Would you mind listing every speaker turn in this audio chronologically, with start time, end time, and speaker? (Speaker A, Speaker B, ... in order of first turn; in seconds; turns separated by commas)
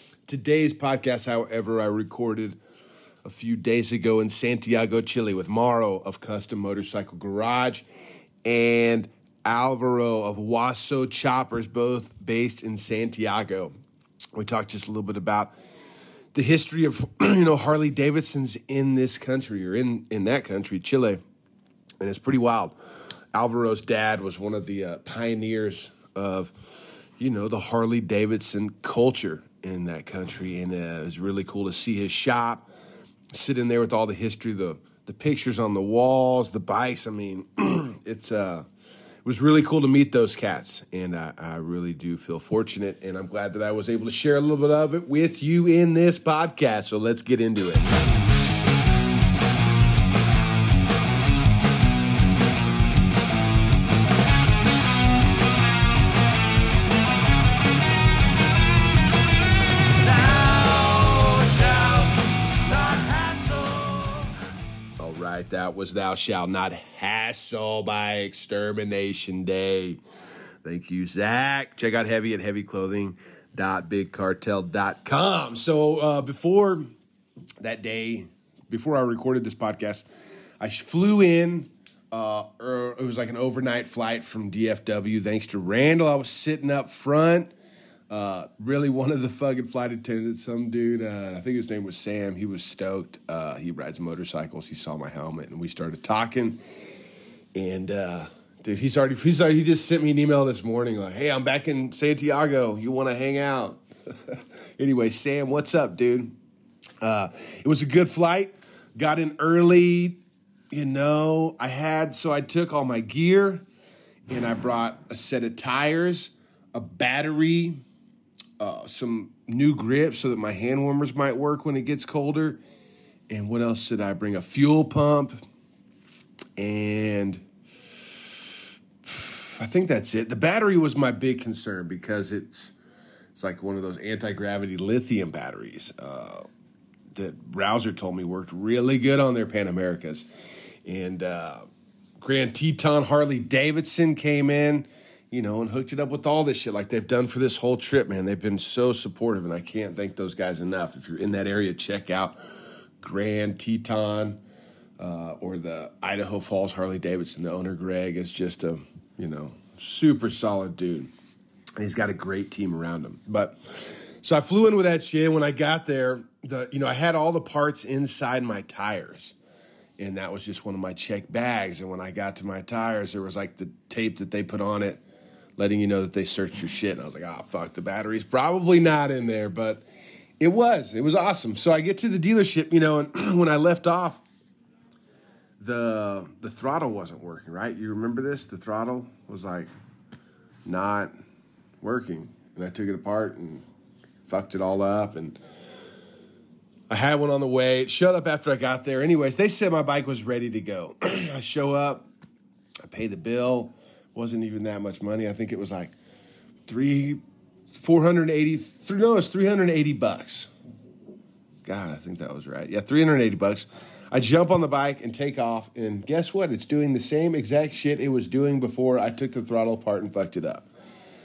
Speaker A: 0.3-2.6, Speaker A: 3.2-7.9, Speaker A: 8.4-13.7, Speaker A: 14.3-15.6, Speaker A: 16.3-21.2, Speaker A: 22.0-22.8, Speaker A: 23.3-26.5, Speaker A: 27.2-32.7, Speaker A: 33.3-38.7, Speaker A: 39.2-47.9, Speaker A: 60.0-64.2, Speaker A: 65.0-70.0, Speaker A: 70.6-76.9, Speaker A: 77.6-80.1, Speaker A: 80.6-87.5, Speaker A: 88.1-96.6, Speaker A: 97.5-106.3, Speaker A: 107.0-110.2, Speaker A: 110.7-113.7, Speaker A: 114.3-117.8, Speaker A: 118.6-122.6, Speaker A: 123.3-125.4, Speaker A: 126.6-127.4, Speaker A: 128.1-128.5, Speaker A: 129.0-132.7, Speaker A: 133.3-136.4, Speaker A: 137.1-140.3, Speaker A: 140.8-141.7, Speaker A: 142.2-152.4, Speaker A: 153.0-154.4, Speaker A: 155.0-161.1, Speaker A: 161.8-169.3, Speaker A: 170.0-175.0, Speaker A: 175.6-179.9, Speaker A: 180.4-184.2, Speaker A: 185.6-189.7, Speaker A: 190.7-191.1, Speaker A: 191.8-193.6, Speaker A: 194.3-195.4, Speaker A: 196.9-202.1, Speaker A: 202.9-205.9, Speaker A: 206.7-207.2, Speaker A: 207.8-210.5, Speaker A: 211.7-220.7